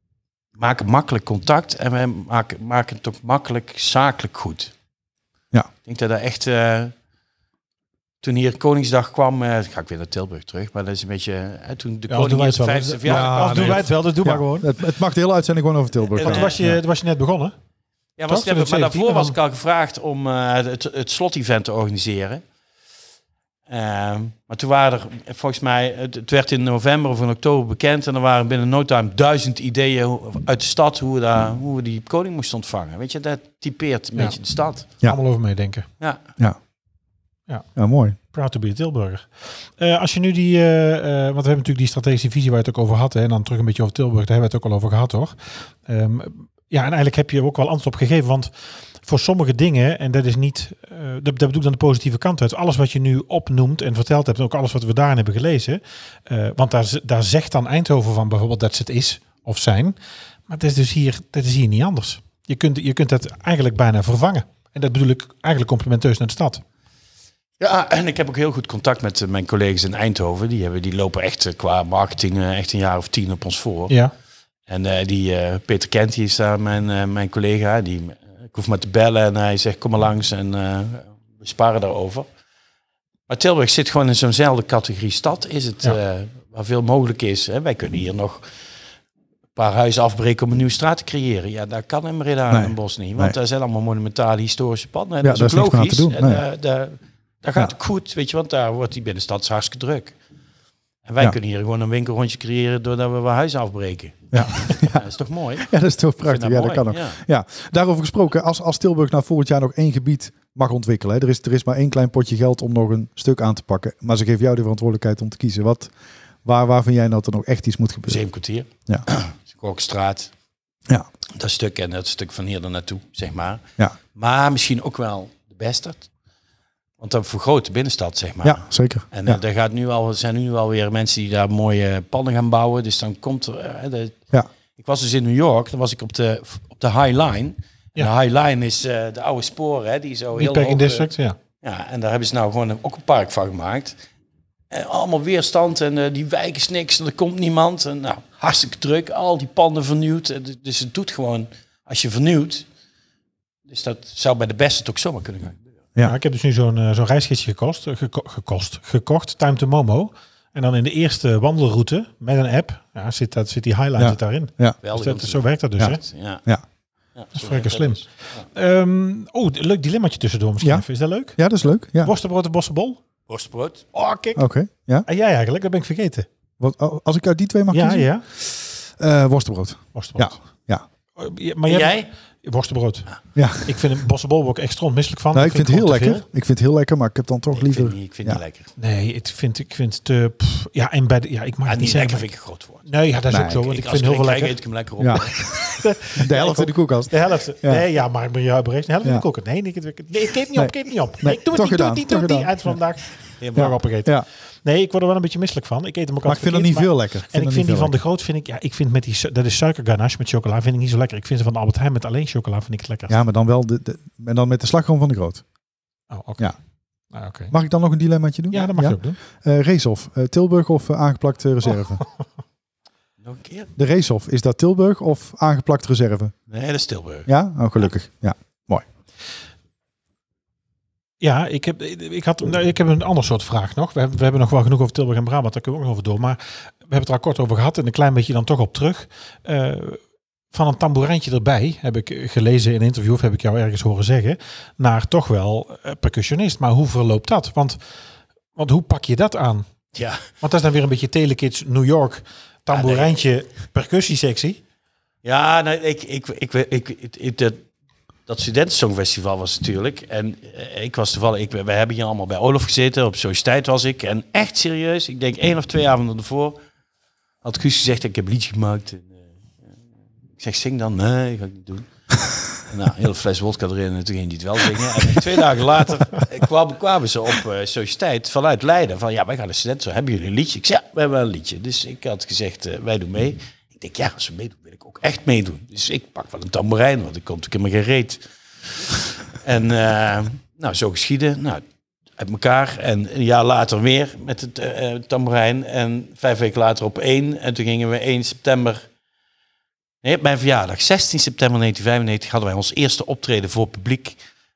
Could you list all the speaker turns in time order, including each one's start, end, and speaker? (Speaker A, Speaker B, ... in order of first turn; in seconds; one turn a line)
Speaker A: 0.6-4.7
Speaker A: 5.8-6.9
Speaker A: 8.2-13.9
Speaker B: 12.1-14.7
Speaker C: 13.1-16.8
Speaker A: 16.1-16.6
Speaker B: 16.2-17.5
Speaker A: 18.2-22.4
Speaker B: 18.3-19.4
Speaker A: 23.7-34.9
Speaker B: 35.0-35.9
Speaker C: 37.8-38.2
Speaker B: 38.3-60.0
Speaker B: 60.5-66.6
Speaker A: 67.6-74.0
Speaker A: 74.7-82.3
Speaker A: 83.3-88.5
Speaker A: 89.5-100.2
Speaker C: 92.5-93.3
Speaker C: 95.2-96.4
Speaker A: 101.1-105.7
Speaker C: 104.3-105.0
Speaker C: 105.6-115.9
Speaker A: 106.2-107.2
Speaker C: 116.5-118.2
Speaker A: 118.1-120.3
Speaker A: 121.3-123.6
Speaker A: 124.2-126.1
Speaker A: 127.0-134.2
Speaker C: 128.4-129.4
Speaker A: 134.8-141.1
Speaker B: 140.3-141.4
Speaker A: 141.6-144.0
Speaker A: 144.7-152.7
Speaker A: 153.7-155.6
Speaker B: 156.0-166.0
Speaker C: 164.0-164.8
Speaker A: 164.8-166.4
Speaker C: 165.8-166.6
Speaker A: 167.2-168.5
Speaker B: 167.4-171.4
Speaker C: 170.6-172.1
Speaker B: 172.0-173.0
Speaker A: 173.3-173.9
Speaker B: 173.9-174.4
Speaker C: 174.4-175.1
Speaker B: 175.1-176.3
Speaker C: 176.6-178.5
Speaker B: 177.7-178.2
Speaker C: 179.0-180.8
Speaker B: 179.9-180.3
Speaker B: 181.2-183.1
Speaker A: 181.7-182.1
Speaker C: 183.3-183.8
Speaker B: 183.6-186.2
Speaker C: 185.3-188.4
Speaker A: 187.5-188.7
Speaker B: 188.8-192.3
Speaker A: 191.7-192.9
Speaker B: 192.9-194.6
Speaker C: 193.3-193.7
Speaker A: 193.7-195.4
Speaker C: 195.0-197.9
Speaker B: 195.7-213.2
Speaker C: 200.6-202.8
Speaker A: 203.4-203.8
Speaker C: 203.6-204.2
Speaker C: 206.2-208.0
Speaker C: 213.1-215.4
Speaker B: 216.1-216.6
Speaker B: 217.1-217.5
Speaker C: 217.5-222.0
Speaker B: 218.5-219.2
Speaker A: 223.2-223.7
Speaker C: 223.8-226.3
Speaker A: 226.5-227.3
Speaker C: 227.3-228.8
Speaker B: 231.2-247.8
Speaker B: 248.6-249.7
Speaker A: 249.9-250.2
Speaker B: 250.4-254.6
Speaker A: 252.7-253.2
Speaker A: 255.2-257.6
Speaker A: 258.3-266.6
Speaker A: 267.4-269.3
Speaker A: 270.4-271.9
Speaker A: 272.5-291.6
Speaker A: 292.2-298.8
Speaker A: 300.0-304.2